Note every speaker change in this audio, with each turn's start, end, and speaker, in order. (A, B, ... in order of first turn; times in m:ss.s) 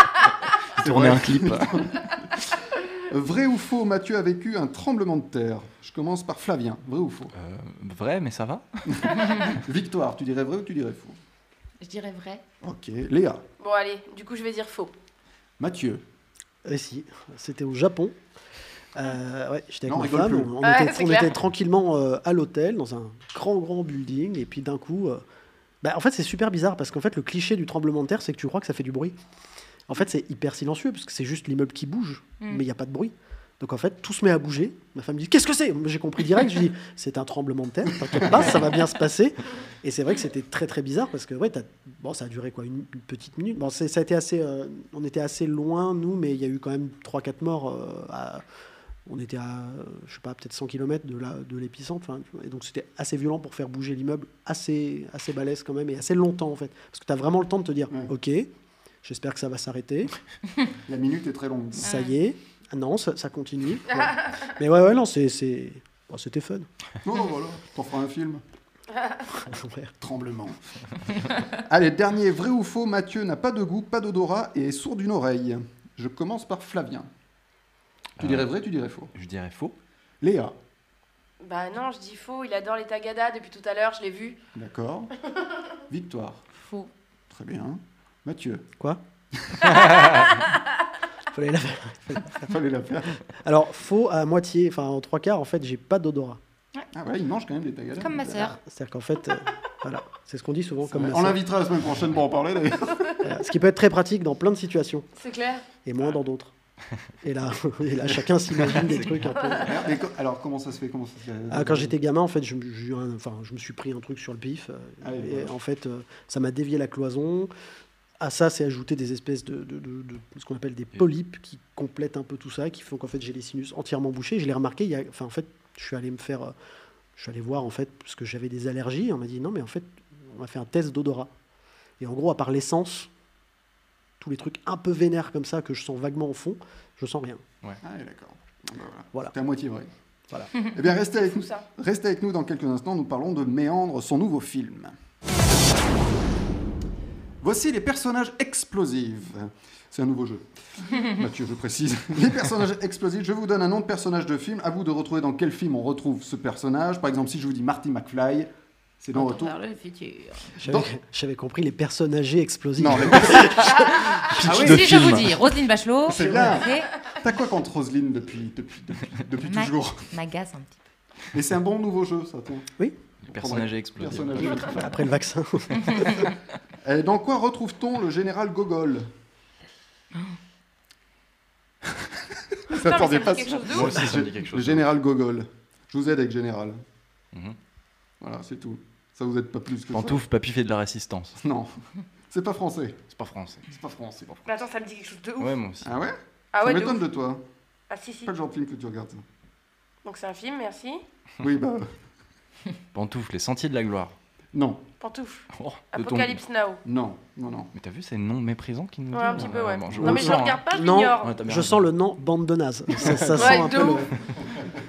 0:00.8-0:01.9 A
0:00.8-0:02.3 B
0:03.1-0:07.3 B
0:07.4-0:09.6 A
0:08.9-0:11.2 B
0:11.8-0:12.4 C
0:12.6-0:13.4 B
0:13.6-0:14.9 D
0:15.6-0:16.0 B
0:16.6-0:18.2 E
0:19.0-0:25.2 E
0:19.9-0:20.5 B
0:20.6-0:21.3 D
0:25.8-0:29.2 E
0:29.9-0:48.4 E
0:38.2-0:38.5 B
0:49.1-0:58.5 E
0:59.0-1:00.1 E
1:00.9-1:01.9 B
1:01.8-1:06.7 E
1:07.0-1:08.4 B
1:09.3-1:09.9 E
1:10.0-1:10.6 B
1:11.2-1:17.1 B
1:18.2-1:18.5 A
1:18.2-1:19.1 B
1:19.1-1:19.8 A
1:20.2-1:20.6 B
1:21.4-1:24.4 D
1:24.6-1:25.1 B
1:25.9-1:26.4 B
1:26.6-1:26.9 C
1:27.3-1:28.7 B
1:29.5-1:29.8 B
1:31.3-1:32.5 E
1:32.4-1:33.2 B
1:33.4-1:36.4 E
1:36.9-1:38.2 B
1:38.0-1:38.6 C
1:38.2-1:41.4 E
1:40.9-1:43.3 B
1:43.2-1:45.1 E
1:45.2-1:45.6 D
1:45.8-1:46.5 E
1:47.2-1:49.8 E
1:48.8-1:49.2 A
1:49.5-1:51.9 B
1:51.5-1:57.5 E
1:55.0-1:55.5 B
1:58.2-2:06.5 E
2:07.2-2:11.3 E
2:12.0-2:13.1 E
2:14.2-2:17.4 E
2:17.8-2:19.9 B
2:20.6-2:25.0 B
2:21.2-2:21.6 D
2:27.4-2:38.5 B
2:39.0-2:39.6 B
2:39.1-2:40.5 C
2:40.6-2:40.9 B
2:40.6-2:44.3 E
2:42.8-2:45.3 B
2:44.3-2:45.4 A
2:44.5-2:46.9 C
2:46.1-2:50.1 B
2:49.4-2:50.8 C
2:51.3-2:52.7 B
2:53.3-2:54.9 A
2:53.3-2:54.9 B
2:54.4-2:56.1 E
2:56.0-2:56.2 B
2:56.8-2:59.1 B
3:02.7-3:06.8 B
3:02.7-3:04.0 D
3:03.7-3:04.9 A
3:08.2-3:10.2 B
3:09.9-3:11.4 A
3:11.4-3:11.8 B
3:12.3-3:13.0 B
3:13.1-3:13.7 A
3:13.7-3:14.4 B
3:14.5-3:15.6 D
3:15.4-3:16.0 A
3:15.8-3:17.4 B
3:16.5-3:17.0 D
3:17.9-3:18.3 D
3:18.2-3:19.2 B
3:20.0-3:21.0 D
3:21.4-3:21.9 B
3:22.9-3:24.2 A
3:24.5-3:24.8 B
3:25.0-3:26.8 D
3:25.5-3:26.4 A
3:26.8-3:27.7 B
3:27.7-3:30.6 A
3:29.1-3:31.3 D
3:29.4-3:30.2 B
3:30.0-3:34.2 E
3:31.2-3:31.9 A
3:33.4-3:34.1 D